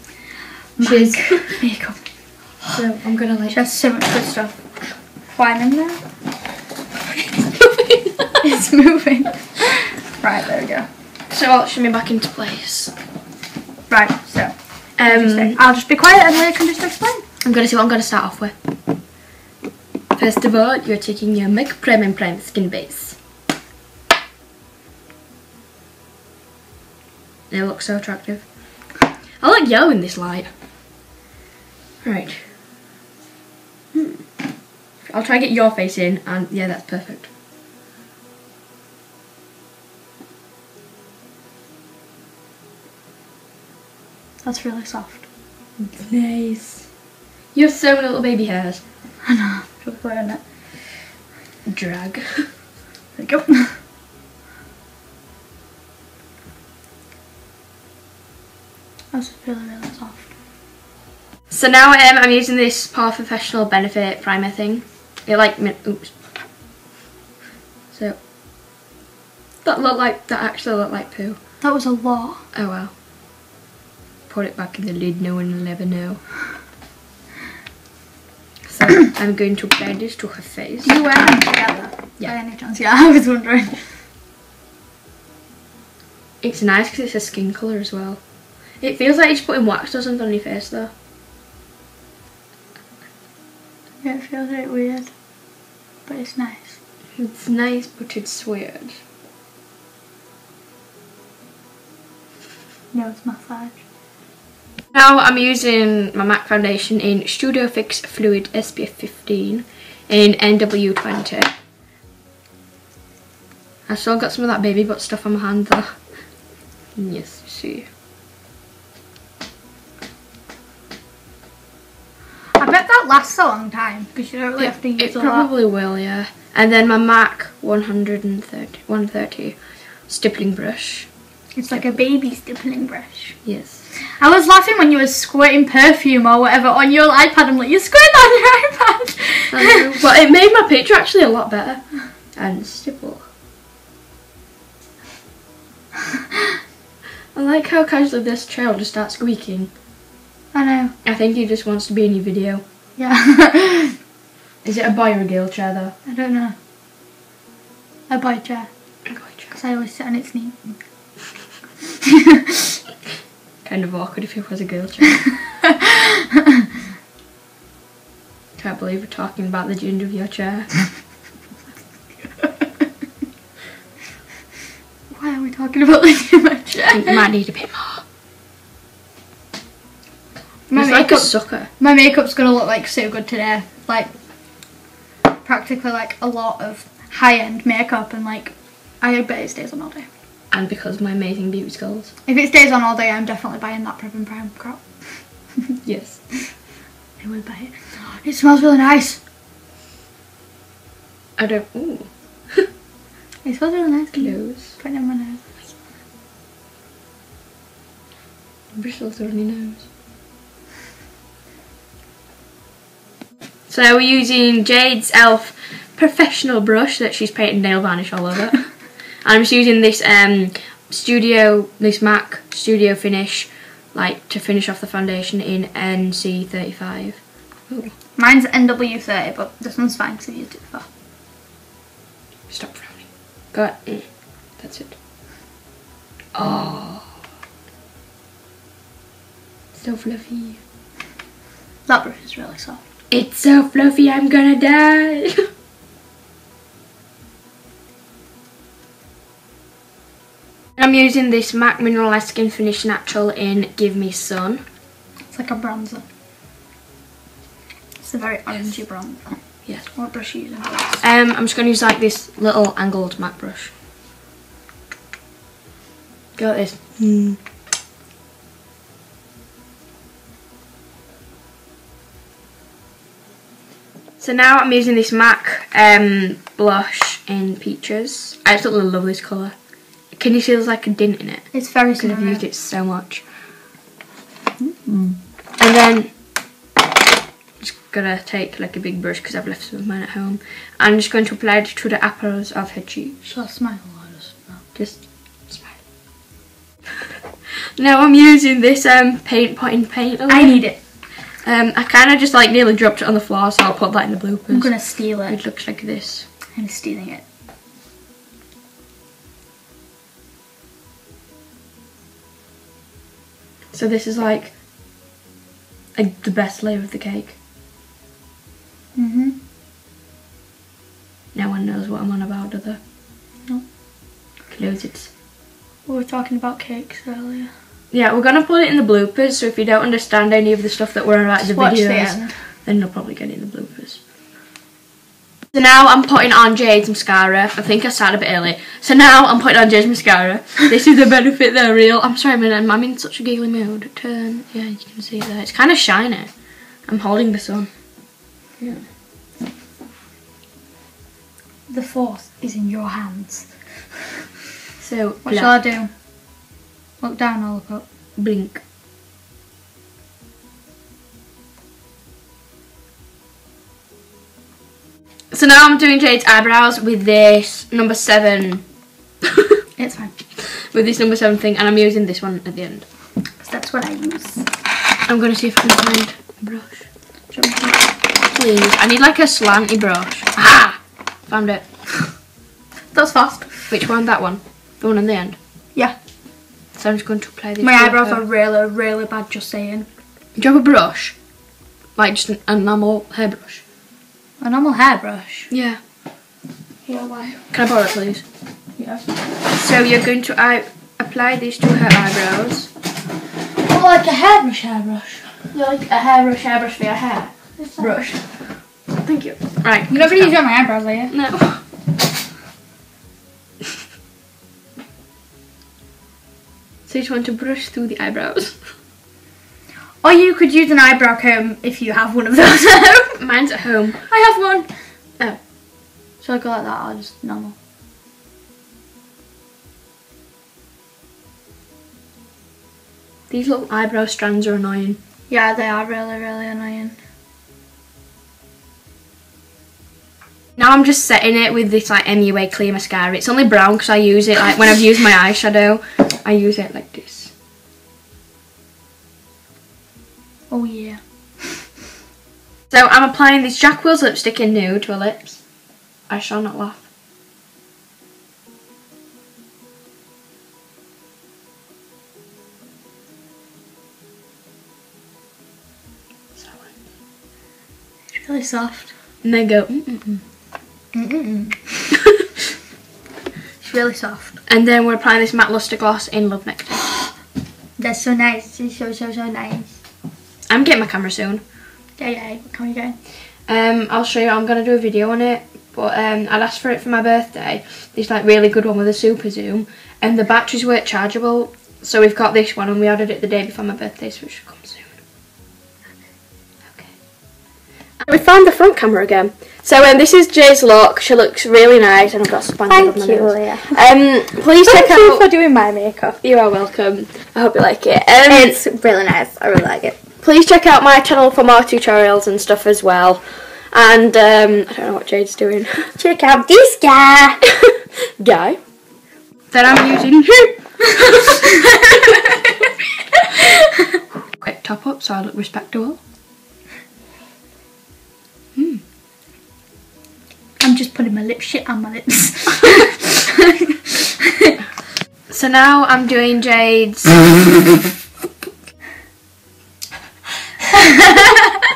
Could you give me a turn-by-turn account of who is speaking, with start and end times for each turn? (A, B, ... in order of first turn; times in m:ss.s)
0:00.8-0:02.5 A
0:00.8-0:01.6 B
0:02.7-0:03.6 B
0:03.5-0:06.1 A
0:07.5-0:08.2 B
0:08.4-0:10.9 A
0:11.3-0:12.9 B
0:13.9-0:17.2 A
0:15.0-0:15.6 B
0:17.4-0:18.5 B
0:20.1-0:23.2 B
0:27.5-0:28.6 B
0:29.4-0:30.5 B
0:32.0-0:32.5 B
0:35.0-0:37.3 B
0:44.4-0:45.2 A
0:45.8-0:46.9 B
0:47.5-0:48.8 B
0:49.2-0:51.0 A
0:51.7-0:52.6 B
0:53.1-0:53.8 A
0:59.1-1:00.3 A
1:01.5-1:06.5 B
1:07.9-1:08.2 B
1:09.6-1:11.4 B
1:11.6-1:12.4 A
1:12.5-1:12.9 B
1:14.3-1:16.3 B
1:18.7-1:21.2 B
1:20.8-1:24.0 A
1:26.4-1:30.9 B
1:34.0-1:35.1 A
1:36.0-1:36.8 A
1:37.2-1:39.0 B
1:42.9-1:43.8 A
1:44.9-1:51.5 B
1:53.9-1:56.3 B
1:56.9-1:57.9 B
2:02.6-2:05.5 A
2:04.6-2:11.1 B
2:11.6-2:19.9 A
2:11.7-2:12.0 B
2:13.4-2:13.8 B
2:19.5-2:23.2 B
2:27.3-2:29.7 B
2:30.5-2:31.0 A
2:31.0-2:32.6 B
2:33.0-2:33.9 A
2:34.6-2:36.0 B
2:36.0-2:36.6 A
2:38.1-2:38.7 A
2:39.1-2:39.6 B
2:39.5-2:40.8 A
2:43.6-2:45.5 B
2:48.6-2:50.8 B
2:52.2-2:52.9 A
2:55.1-2:57.2 A
2:56.9-2:58.0 B
3:00.7-3:04.1 A
3:00.8-3:01.7 B
3:05.4-3:10.1 A
3:10.5-3:12.1 B
3:12.3-3:15.6 A
3:15.8-3:16.4 B
3:17.2-3:19.2 A
3:21.4-3:22.6 B
3:23.4-3:25.7 A
3:24.1-3:24.8 B
3:28.7-3:29.9 B
3:33.7-3:48.0 B
3:48.2-3:50.9 A
3:52.5-3:55.0 B
3:56.4-3:57.1 B
3:59.7-4:00.6 B
4:01.9-4:02.8 A
4:03.1-4:05.4 B
4:10.8-4:14.6 B
4:15.3-4:16.0 A
4:18.0-4:21.0 A
4:19.6-4:20.4 B
4:21.0-4:23.7 B
4:26.4-4:27.4 B
4:34.2-4:39.6 B
4:40.1-4:43.3 B
4:41.5-4:42.4 A
4:44.6-4:45.2 A
4:45.6-4:46.2 B
4:47.6-4:53.2 B
4:53.2-4:54.6 A
4:54.8-4:55.9 B
4:57.8-5:06.3 B
5:00.3-5:00.8 A
5:04.5-5:05.7 A
5:06.5-5:07.2 A
5:13.7-5:14.5 B
5:15.9-5:17.4 B
5:18.9-5:19.4 A
5:21.3-5:22.8 B
5:24.5-5:25.1 B
5:25.8-5:27.5 A
5:27.9-5:34.0 B
5:31.4-5:32.5 A
5:35.5-5:48.8 B
5:51.7-5:54.0 A
5:54.8-5:55.6 B
5:55.2-5:55.9 A
5:57.0-5:57.9 A
5:58.2-5:58.6 B
6:05.3-6:08.7 B
6:09.8-6:10.1 A
6:10.6-6:12.9 B
6:13.4-6:14.5 A
6:15.1-6:16.8 B
6:17.3-6:17.9 A
6:18.2-6:21.7 B
6:22.9-6:23.7 A
6:23.7-6:25.4 B
6:26.8-6:28.2 B
6:27.6-6:29.9 A
6:30.4-6:31.3 B
6:31.9-6:33.6 B
6:34.4-6:35.5 A
6:35.5-6:35.8 B
6:36.9-6:37.5 A
6:37.5-6:38.2 B
6:38.8-6:42.7 B
6:43.6-6:45.5 A
6:45.5-6:50.4 B
6:47.6-6:48.2 A
6:49.9-6:51.2 A
6:51.1-6:51.6 B
6:56.9-6:58.7 B
7:00.0-7:03.2 A
7:03.2-7:04.0 B
7:04.1-7:04.9 A
7:06.2-7:07.6 A
7:13.3-7:15.0 B
7:15.3-7:17.0 A
7:20.6-7:27.3 B
7:30.5-7:31.7 A
7:32.7-7:36.9 B
7:46.4-7:46.7 B
7:48.1-7:48.9 A
7:49.2-7:50.2 B
7:50.9-7:51.9 A
7:53.6-7:54.4 A
7:54.4-7:57.0 B
7:57.8-7:59.8 A
8:00.5-8:01.4 B
8:02.0-8:03.0 A
8:03.4-8:15.0 B
8:16.7-8:17.0 B
8:18.0-8:25.3 B
8:22.7-8:23.8 A
8:24.6-8:26.2 A
8:26.2-8:28.6 B
8:28.3-8:30.0 A
8:30.2-8:35.9 B
8:36.0-8:37.4 A
8:38.2-8:38.6 B
8:39.5-8:41.2 B
8:44.4-8:46.0 B
8:48.6-8:48.8 B
8:50.6-8:53.1 A
8:55.3-8:57.5 B
9:00.8-9:01.5 A